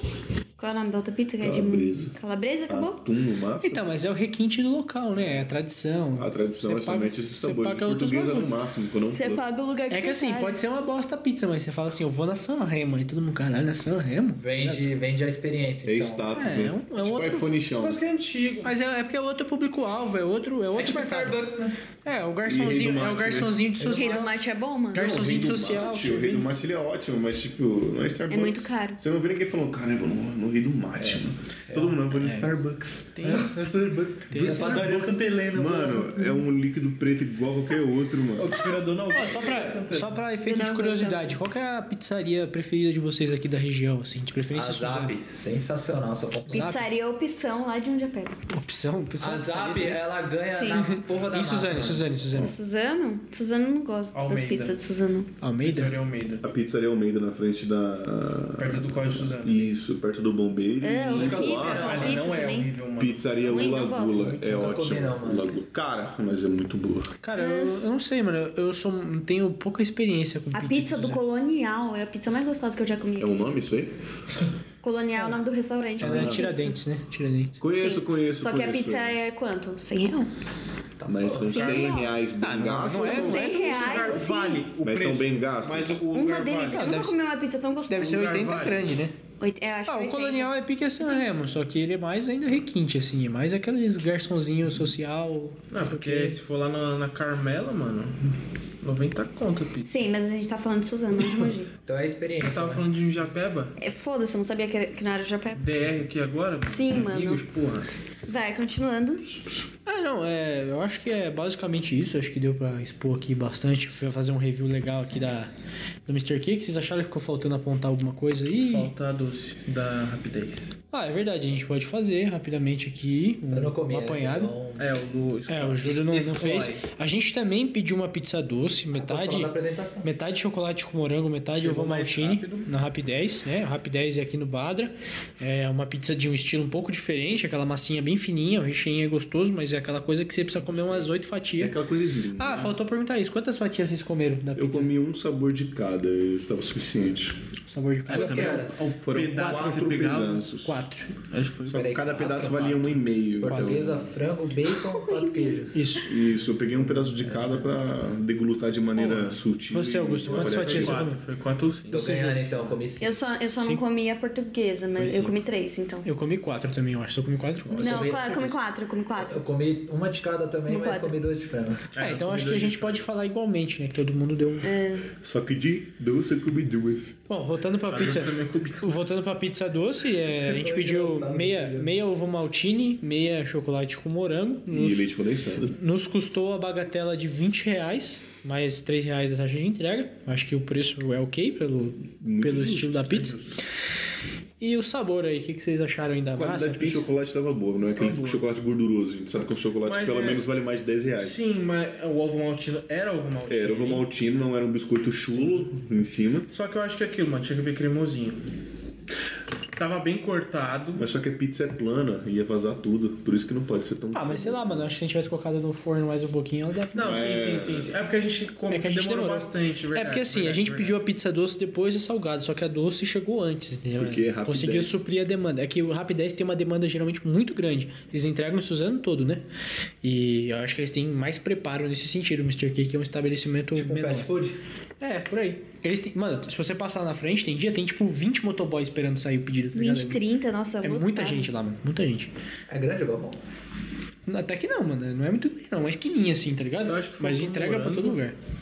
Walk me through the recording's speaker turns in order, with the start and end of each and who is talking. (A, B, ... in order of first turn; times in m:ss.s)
0:00.6-0:03.0 A
0:01.4-0:02.1 B
0:02.7-0:03.8 B
0:03.6-0:08.5 C
0:05.2-0:05.5 B
0:06.2-0:09.4 B
0:09.1-0:10.6 A
0:09.9-0:14.9 C
0:14.4-0:16.4 D
0:15.8-0:18.0 B
0:16.3-0:17.5 C
0:17.8-0:18.7 E
0:18.6-0:21.4 C
0:20.7-0:21.8 D
0:22.0-0:24.4 C
0:22.4-0:23.6 B
0:23.8-0:24.2 D
0:23.9-0:25.2 A
0:24.9-0:26.5 C
0:25.0-0:38.6 B
0:28.3-0:29.0 A
0:32.1-0:32.5 C
0:33.2-0:33.7 C
0:33.2-0:33.8 E
0:33.3-0:33.7 D
0:34.3-0:35.2 C
0:34.3-0:36.3 D
0:38.4-0:40.2 E
0:39.1-0:45.1 C
0:40.4-0:41.4 A
0:44.5-0:46.8 D
0:46.5-0:46.8 C
0:46.5-0:48.4 A
0:48.5-0:50.0 C
0:49.2-0:52.1 D
0:50.5-0:50.8 A
0:50.7-0:52.5 C
0:52.3-0:55.3 A
0:54.1-0:54.8 E
0:55.4-0:55.9 C
0:55.6-0:56.4 E
0:56.4-1:02.1 B
0:58.6-0:59.7 E
1:00.8-1:02.7 A
1:01.1-1:02.2 D
1:01.7-1:03.7 E
1:03.0-1:07.1 B
1:03.4-1:04.4 A
1:04.2-1:05.5 D
1:07.2-1:11.2 C
1:07.4-1:07.8 A
1:10.5-1:13.6 A
1:13.2-1:14.0 B
1:14.8-1:16.8 A
1:16.0-1:16.5 B
1:16.0-1:17.6 C
1:17.6-1:19.2 B
1:17.7-1:20.3 A
1:21.0-1:21.8 D
1:21.0-1:23.6 B
1:21.4-1:22.2 A
1:21.5-1:21.9 E
1:22.4-1:23.0 D
1:22.8-1:24.2 C
1:22.9-1:24.7 A
1:23.2-1:27.0 E
1:24.8-1:26.0 B
1:26.1-1:28.1 A
1:26.6-1:27.2 C
1:27.9-1:29.1 C
1:28.0-1:28.9 E
1:29.4-1:31.2 A
1:29.9-1:36.4 C
1:35.7-1:39.9 E
1:39.9-1:41.7 A
1:41.8-1:42.8 D
1:42.4-1:43.7 E
1:43.8-1:45.6 A
1:45.6-1:47.9 E
1:46.7-1:47.4 A
1:48.2-1:49.4 A
1:49.8-1:55.5 C
1:56.0-1:58.9 C
1:58.6-2:00.7 E
2:00.9-2:04.6 C
2:03.5-2:04.9 D
2:04.8-2:06.8 E
2:05.5-2:21.8 C
2:08.9-2:10.1 D
2:11.5-2:12.7 E
2:20.7-2:22.8 B
2:22.4-2:24.9 C
2:24.6-2:27.4 B
2:27.7-2:29.8 C
2:28.1-2:28.8 D
2:28.1-2:30.4 E
2:29.0-2:30.8 B
2:30.6-2:31.1 C
2:31.3-2:32.6 E
2:31.7-2:34.1 B
2:31.7-2:35.9 D
2:33.5-2:33.8 C
2:34.9-2:35.6 A
2:35.7-2:36.2 C
2:36.0-2:41.1 B
2:37.0-2:37.7 D
2:39.0-2:41.2 C
2:40.2-2:42.3 E
2:41.9-2:43.1 D
2:41.9-2:42.4 C
2:43.0-2:46.1 A
2:45.0-2:45.3 E
2:46.0-2:48.2 C
2:47.6-2:48.6 D
2:47.8-2:49.4 A
2:49.2-2:51.9 D
2:50.7-2:51.2 A
2:51.9-2:53.0 E
2:52.0-2:54.7 C
2:54.6-2:55.1 A
2:55.2-2:57.2 B
2:57.3-3:05.1 C
2:57.9-2:59.0 E
3:00.4-3:01.9 D
3:04.7-3:05.8 B
3:05.7-3:13.4 C
3:12.2-3:13.0 B
3:12.9-3:13.6 E
3:14.6-3:17.1 C
3:16.2-3:21.4 B
3:17.9-3:18.4 E
3:19.8-3:20.5 E
3:21.2-3:24.0 E
3:23.5-3:26.5 B
3:26.5-3:28.4 E
3:29.8-3:31.0 E
3:30.9-3:34.9 B
3:34.1-3:37.3 C
3:36.9-3:41.0 E
3:37.0-3:37.9 B
3:38.7-3:49.4 C
3:44.0-3:44.9 B
3:50.0-3:54.3 C
3:53.7-3:54.6 D
3:55.0-4:00.2 C
3:59.7-4:01.5 A
4:00.8-4:02.3 C
4:02.7-4:03.4 D
4:04.2-4:08.3 C
4:06.8-4:08.2 E